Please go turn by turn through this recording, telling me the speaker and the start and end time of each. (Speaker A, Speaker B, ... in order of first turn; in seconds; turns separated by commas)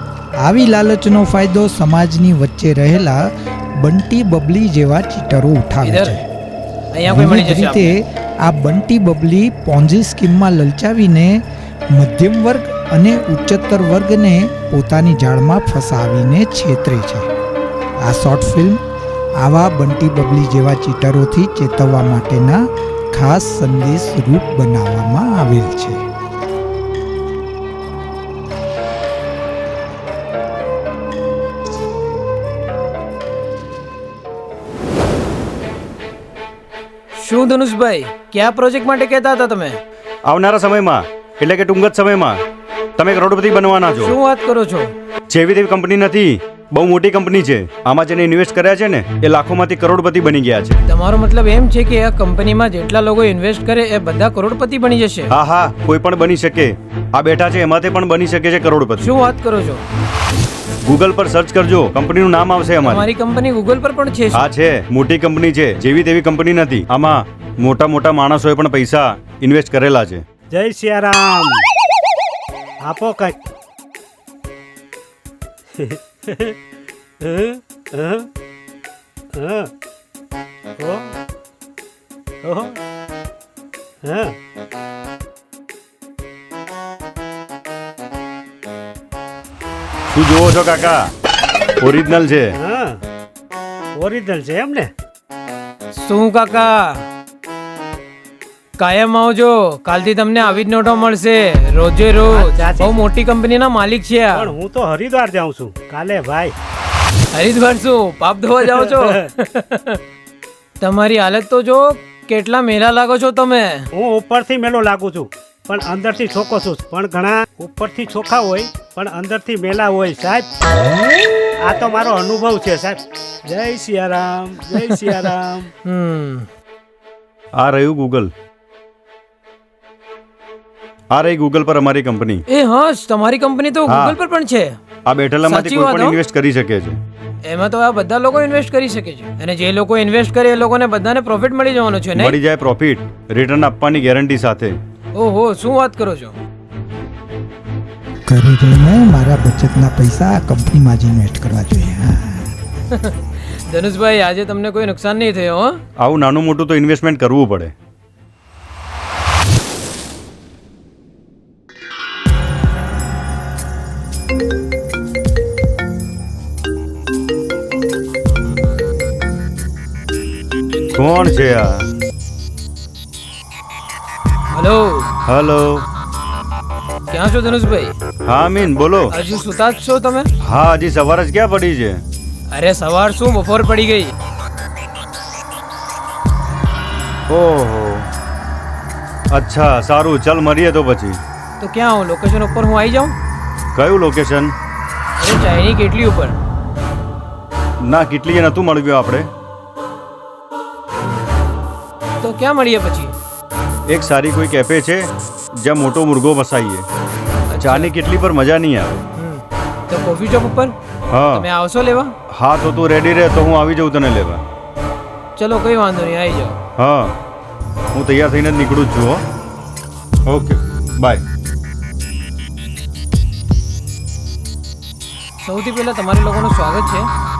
Speaker A: 0.4-3.2, Speaker A: 3.8-6.2, Speaker B: 5.8-6.2, Speaker B: 6.9-7.9, Speaker A: 7.0-11.4, Speaker A: 11.9-17.3, Speaker A: 18.0-18.8, Speaker A: 19.4-26.0, Speaker B: 37.2-39.8, Speaker C: 40.3-42.4, Speaker C: 43.0-44.1, Speaker B: 43.9-44.9, Speaker C: 45.3-50.8, Speaker B: 50.9-55.3, Speaker C: 55.3-59.1, Speaker B: 59.0-59.8, Speaker C: 60.9-63.0, Speaker B: 62.8-64.4, Speaker C: 64.3-70.2, Speaker D: 70.5-71.6, Speaker D: 72.8-73.4, Speaker D: 75.8-76.5, Speaker D: 77.2-78.3, Speaker D: 79.3-79.7, Speaker D: 80.8-81.1, Speaker D: 82.4-82.8, Speaker D: 84.0-84.3, Speaker C: 90.1-91.1, Speaker C: 91.8-92.5, Speaker D: 92.5-93.0, Speaker D: 94.0-94.9, Speaker B: 95.9-97.0, Speaker B: 98.8-104.5, Speaker D: 102.3-103.0, Speaker D: 104.3-106.5, Speaker B: 107.3-110.0, Speaker D: 108.7-109.2, Speaker B: 110.8-113.9, Speaker D: 113.9-120.5, Speaker D: 121.6-125.7, Speaker B: 125.8-126.5, Speaker C: 127.6-128.3, Speaker C: 131.1-132.4, Speaker B: 132.5-134.8, Speaker C: 133.9-134.2, Speaker C: 135.1-137.0, Speaker B: 135.4-136.2, Speaker B: 137.4-142.4, Speaker C: 142.1-144.8, Speaker B: 145.1-146.3, Speaker A: 148.3-152.5, Speaker B: 152.9-155.8, Speaker C: 156.0-157.7, Speaker C: 170.9-171.8, Speaker B: 174.5-175.1, Speaker C: 175.3-175.8, Speaker B: 177.1-177.9, Speaker C: 178.3-179.1, Speaker B: 179.1-180.3, Speaker C: 180.4-182.0, Speaker B: 182.5-184.1, Speaker C: 187.3-188.1, Speaker C: 189.3-191.2, Speaker B: 191.6-193.1, Speaker C: 193.7-194.5, Speaker B: 195.2-196.4, Speaker C: 197.8-199.3, Speaker B: 202.2-203.1, Speaker C: 203.9-205.1, Speaker C: 205.6-206.8, Speaker B: 207.5-207.9, Speaker C: 207.6-209.0, Speaker B: 209.2-210.7, Speaker C: 211.1-211.4, Speaker B: 211.3-212.1, Speaker C: 212.3-214.4, Speaker B: 215.4-216.5, Speaker C: 216.8-217.1, Speaker C: 217.9-219.2, Speaker C: 220.3-221.2, Speaker B: 225.4-227.1